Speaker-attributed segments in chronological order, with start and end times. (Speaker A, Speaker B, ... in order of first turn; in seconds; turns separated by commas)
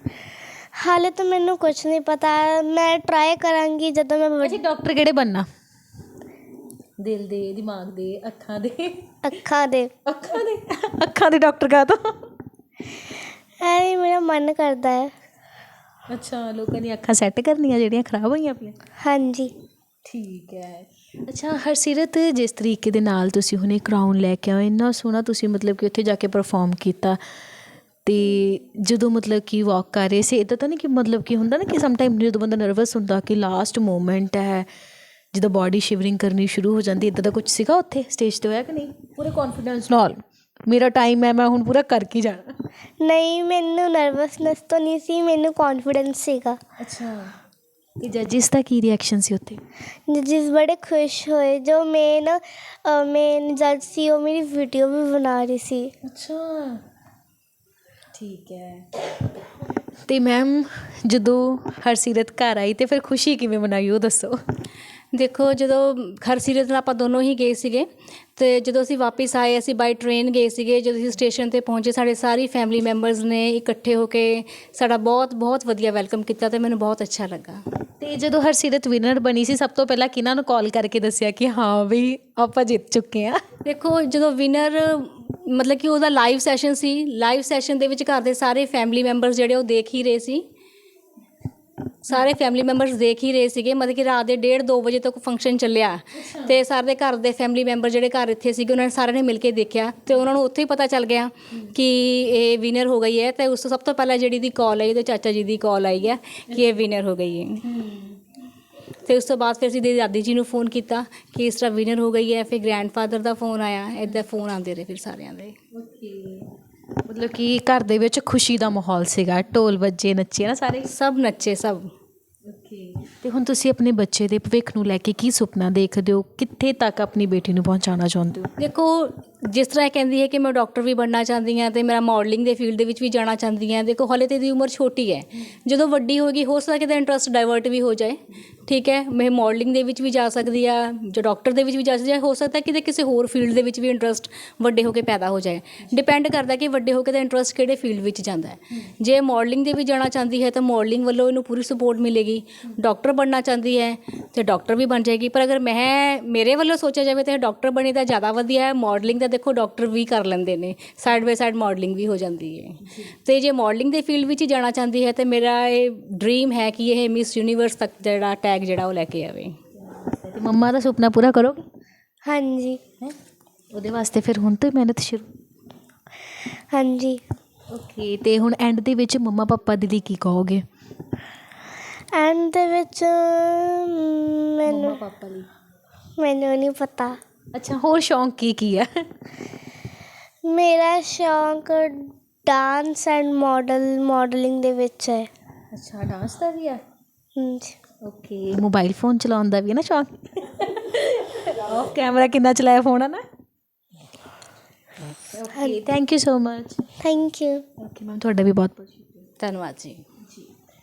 Speaker A: 0.8-4.6, Speaker B: 4.4-5.5, Speaker B: 7.0-9.2, Speaker A: 9.2-9.9, Speaker B: 10.1-12.3, Speaker A: 13.6-15.1, Speaker B: 16.1-18.8, Speaker A: 19.0-19.5, Speaker B: 20.1-27.2, Speaker B: 28.1-34.7, Speaker B: 35.3-42.6, Speaker A: 43.0-46.6, Speaker B: 46.8-47.3, Speaker B: 48.0-49.6, Speaker A: 50.1-55.9, Speaker B: 56.0-56.8, Speaker B: 58.1-59.2, Speaker B: 60.1-64.4, Speaker C: 65.1-77.6, Speaker B: 78.0-83.4, Speaker C: 83.6-90.4, Speaker C: 92.0-107.7, Speaker B: 96.2-96.6, Speaker B: 107.6-108.2, Speaker C: 109.0-115.6, Speaker B: 115.7-116.5, Speaker B: 117.0-120.9, Speaker C: 120.8-121.9, Speaker B: 122.5-128.5, Speaker C: 128.6-169.6, Speaker B: 169.8-171.7, Speaker A: 172.2-172.8, Speaker B: 173.7-175.3, Speaker A: 176.7-177.2, Speaker B: 177.7-180.6, Speaker A: 182.1-185.0, Speaker B: 184.7-185.5, Speaker A: 186.2-187.2, Speaker B: 187.5-189.1, Speaker A: 190.5-195.3, Speaker B: 195.7-196.8, Speaker A: 197.4-197.8, Speaker B: 198.0-203.2, Speaker B: 205.2-206.8, Speaker A: 205.6-205.8, Speaker A: 207.0-207.6, Speaker B: 207.8-209.3, Speaker C: 209.4-210.0